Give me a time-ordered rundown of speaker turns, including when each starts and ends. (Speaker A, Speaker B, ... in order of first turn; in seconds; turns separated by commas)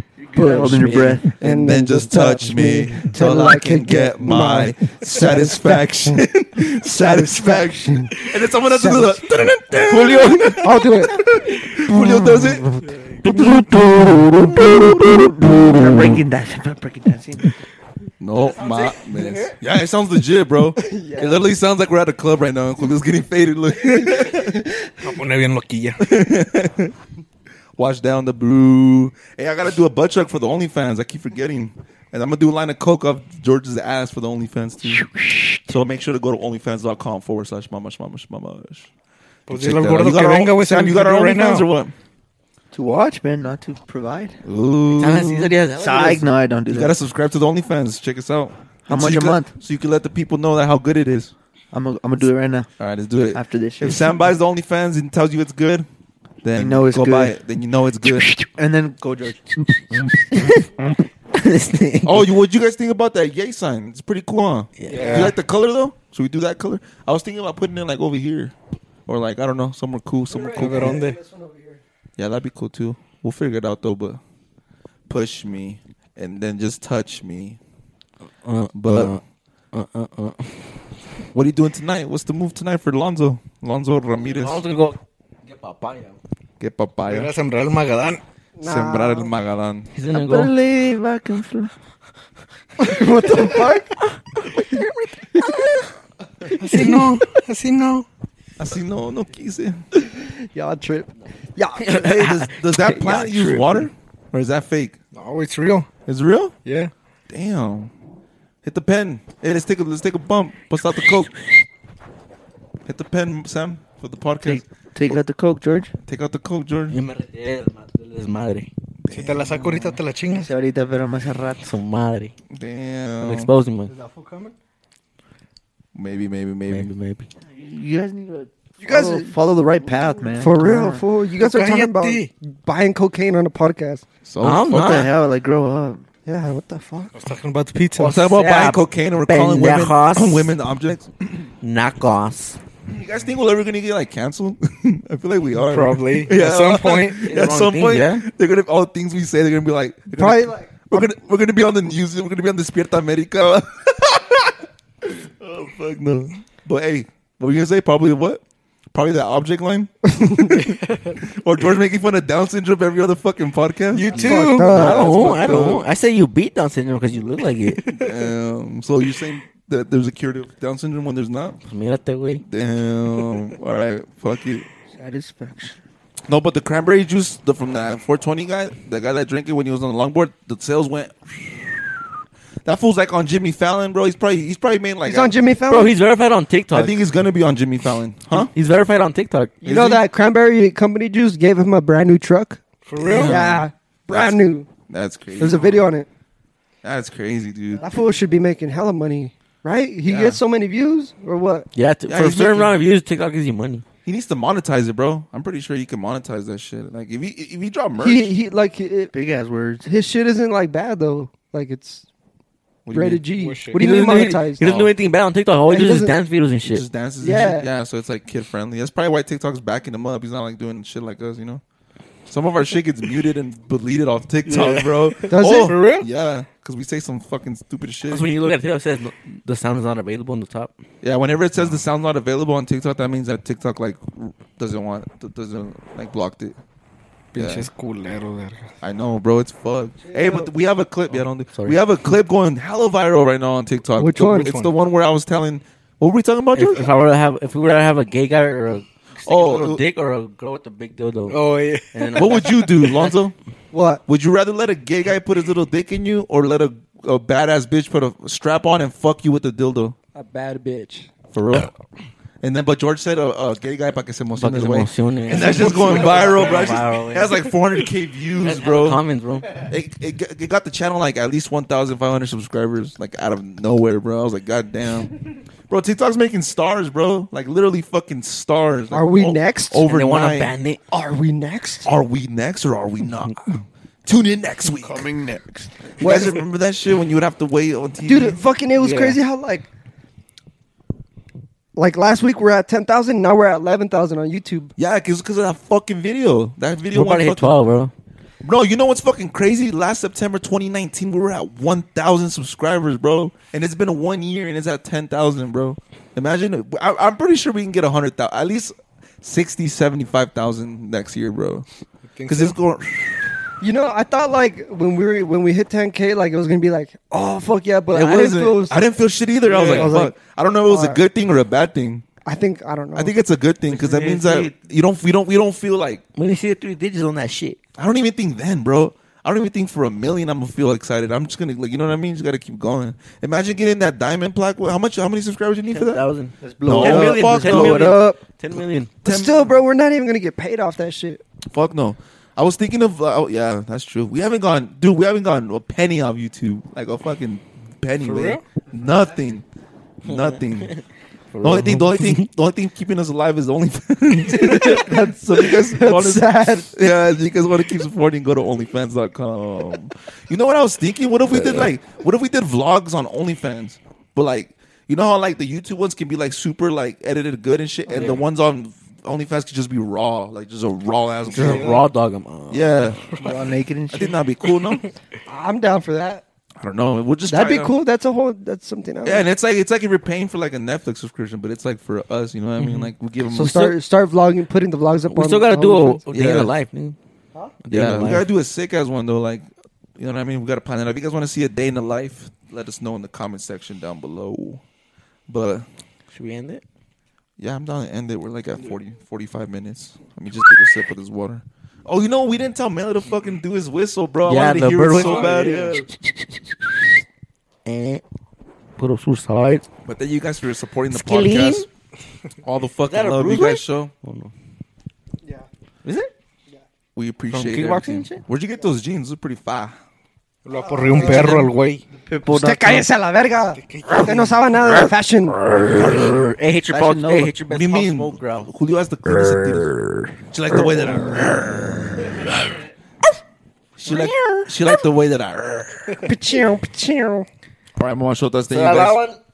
Speaker A: 0.3-6.2, Speaker B: 0.3-1.3, Speaker C: 0.4-1.2, Speaker D: 1.4-15.4, Speaker A: 6.8-9.5, Speaker C: 9.8-10.7, Speaker A: 10.6-11.2, Speaker A: 11.9-12.8, Speaker C: 13.2-13.6, Speaker B: 14.4-17.5, Speaker D: 18.2-24.6, Speaker A: 20.8-21.4, Speaker A: 23.9-25.1, Speaker E: 25.0-26.1, Speaker D: 26.0-26.9, Speaker D: 27.8-38.9, Speaker E: 39.5-41.7, Speaker D: 39.5-41.9, Speaker B: 42.7-44.4, Speaker D: 44.4-45.5, Speaker C: 45.0-46.3, Speaker B: 45.7-47.0, Speaker D: 46.7-51.3, Speaker B: 48.9-49.5, Speaker B: 51.7-52.7, Speaker D: 52.8-55.9, Speaker B: 53.3-54.2, Speaker D: 56.4-58.4, Speaker B: 56.6-57.4, Speaker B: 58.4-60.5, Speaker C: 61.3-62.3, Speaker D: 62.0-68.5, Speaker C: 64.8-65.4, Speaker E: 64.9-65.4, Speaker D: 69.1-71.1, Speaker A: 70.3-71.8, Speaker E: 70.5-71.2, Speaker D: 72.2-74.2, Speaker D: 75.1-77.6, Speaker C: 78.4-79.2, Speaker D: 78.7-79.2, Speaker C: 79.7-80.7, Speaker D: 81.3-84.6, Speaker C: 84.1-86.2, Speaker D: 86.6-87.3, Speaker E: 87.0-88.2, Speaker A: 88.6-89.3, Speaker D: 88.6-89.9, Speaker C: 90.0-90.5, Speaker B: 90.1-91.7, Speaker A: 92.8-94.0, Speaker A: 95.3-95.7, Speaker E: 96.5-98.1, Speaker D: 98.6-99.8, Speaker A: 100.0-102.0, Speaker C: 101.8-103.9, Speaker D: 101.9-105.0, Speaker E: 105.1-105.9, Speaker D: 106.1-106.5, Speaker E: 106.7-106.9, Speaker D: 107.3-107.9, Speaker D: 108.6-111.3, Speaker D: 112.9-115.2, Speaker B: 114.4-115.9, Speaker D: 116.0-117.0, Speaker C: 116.9-118.7, Speaker D: 119.0-120.0, Speaker E: 119.1-120.5, Speaker B: 120.3-121.7, Speaker C: 121.6-122.3, Speaker D: 122.5-123.5, Speaker C: 123.2-123.9, Speaker E: 123.9-124.5, Speaker D: 126.0-126.9, Speaker C: 126.7-127.3, Speaker B: 127.5-131.0, Speaker A: 128.8-129.4, Speaker A: 130.4-134.1, Speaker E: 131.4-132.3, Speaker D: 134.2-135.1, Speaker C: 134.4-135.1, Speaker B: 134.7-136.0, Speaker A: 136.3-137.2, Speaker E: 137.1-138.3, Speaker D: 138.0-141.4, Speaker C: 138.1-140.5, Speaker C: 141.6-142.6, Speaker D: 142.9-158.4, Speaker E: 145.6-147.3, Speaker C: 147.2-148.2, Speaker A: 150.1-151.2, Speaker D: 158.9-165.8, Speaker A: 160.1-160.7, Speaker E: 160.9-161.2, Speaker E: 163.9-164.8, Speaker A: 164.1-165.4, Speaker C: 164.7-167.8, Speaker E: 167.8-168.2, Speaker D: 167.9-171.6, Speaker C: 171.7-172.4, Speaker D: 172.4-174.7, Speaker B: 174.9-175.8, Speaker D: 176.3-181.9, Speaker D: 182.7-185.4, Speaker A: 185.0-186.0, Speaker C: 185.7-187.0, Speaker D: 186.7-188.5, Speaker C: 188.3-189.6, Speaker D: 189.6-190.0, Speaker A: 189.6-192.6, Speaker E: 192.9-193.5, Speaker D: 193.0-195.8, Speaker A: 193.2-194.7, Speaker A: 195.4-196.1, Speaker D: 196.8-197.8, Speaker A: 197.8-201.7, Speaker D: 200.1-200.4, Speaker C: 201.7-203.8, Speaker D: 202.1-202.8, Speaker D: 204.1-208.3, Speaker A: 208.0-209.1, Speaker B: 209.1-209.9, Speaker A: 209.8-212.1, Speaker D: 212.9-213.3, Speaker A: 212.9-214.7, Speaker E: 213.4-214.1, Speaker C: 213.7-216.8, Speaker D: 214.1-214.9, Speaker A: 215.7-216.2, Speaker D: 216.7-221.6, Speaker A: 217.2-217.7, Speaker D: 222.3-228.3, Speaker E: 224.5-226.1, Speaker A: 225.3-225.8, Speaker C: 228.1-230.7, Speaker D: 231.0-236.6, Speaker E: 237.3-238.7, Speaker D: 237.4-237.7, Speaker D: 238.8-246.9, Speaker A: 240.1-240.5, Speaker A: 244.0-244.6, Speaker E: 244.3-244.7, Speaker C: 246.5-252.7, Speaker D: 249.2-249.8, Speaker E: 251.3-253.1, Speaker D: 252.2-253.3, Speaker A: 253.7-254.0, Speaker D: 254.1-260.0, Speaker A: 260.1-261.1, Speaker D: 261.3-261.7, Speaker D: 262.4-269.0, Speaker C: 264.4-267.6, Speaker C: 268.4-269.5, Speaker D: 269.5-280.5, Speaker A: 278.9-279.9, Speaker C: 279.9-280.8, Speaker A: 280.9-281.9, Speaker D: 281.9-285.1, Speaker B: 284.7-286.5, Speaker A: 286.0-286.4, Speaker D: 286.0-288.4, Speaker A: 288.0-289.7, Speaker E: 288.8-289.2, Speaker A: 291.8-294.7, Speaker D: 294.8-297.5, Speaker C: 296.9-297.9, Speaker D: 298.4-311.7, Speaker E: 312.1-312.6, Speaker D: 312.3-313.3, Speaker A: 313.6-318.8, Speaker D: 317.9-322.0, Speaker E: 319.5-319.9, Speaker A: 319.5-321.0, Speaker A: 322.2-323.1, Speaker D: 323.0-326.0, Speaker C: 323.7-324.5, Speaker C: 326.2-327.6, Speaker D: 327.8-336.0, Speaker C: 335.7-338.9, Speaker B: 336.4-338.2, Speaker D: 336.6-337.9, Speaker D: 339.0-339.6, Speaker A: 339.1-341.2, Speaker D: 341.5-349.4, Speaker E: 348.0-348.4, Speaker D: 350.0-350.8, Speaker C: 350.1-350.8, Speaker C: 351.3-352.3, Speaker D: 351.4-371.8, Speaker A: 354.3-356.7, Speaker C: 367.9-368.2, Speaker C: 371.3-372.9, Speaker E: 371.4-371.8, Speaker D: 372.5-373.2, Speaker B: 373.2-374.2, Speaker D: 373.9-374.9, Speaker A: 375.3-376.2, Speaker D: 376.6-377.7, Speaker A: 377.3-379.3, Speaker D: 379.0-383.8, Speaker C: 382.6-382.9, Speaker A: 383.3-386.0, Speaker C: 385.1-387.0, Speaker D: 386.1-386.5, Speaker C: 387.6-388.3, Speaker D: 387.7-389.5, Speaker D: 390.0-394.6, Speaker D: 395.3-395.7, Speaker C: 396.1-396.6, Speaker D: 397.4-405.9, Speaker C: 404.3-406.9, Speaker E: 405.0-405.4, Speaker C: 407.7-408.0, Speaker C: 408.8-409.7, Speaker D: 409.9-411.7, Speaker C: 410.9-411.7, Speaker D: 412.4-413.9, Speaker C: 412.9-414.3, Speaker C: 415.8-416.1, Speaker D: 417.0-419.8, Speaker C: 417.3-418.2, Speaker E: 420.4-421.8, Speaker A: 420.6-421.4, Speaker D: 421.0-421.5, Speaker B: 421.9-422.8, Speaker A: 422.3-425.4, Speaker E: 423.5-424.4, Speaker C: 425.6-428.5, Speaker B: 426.7-427.3, Speaker D: 427.5-432.5, Speaker D: 433.8-436.0, Speaker C: 433.9-434.4, Speaker A: 436.0-437.3, Speaker D: 437.8-439.0, Speaker C: 438.5-439.2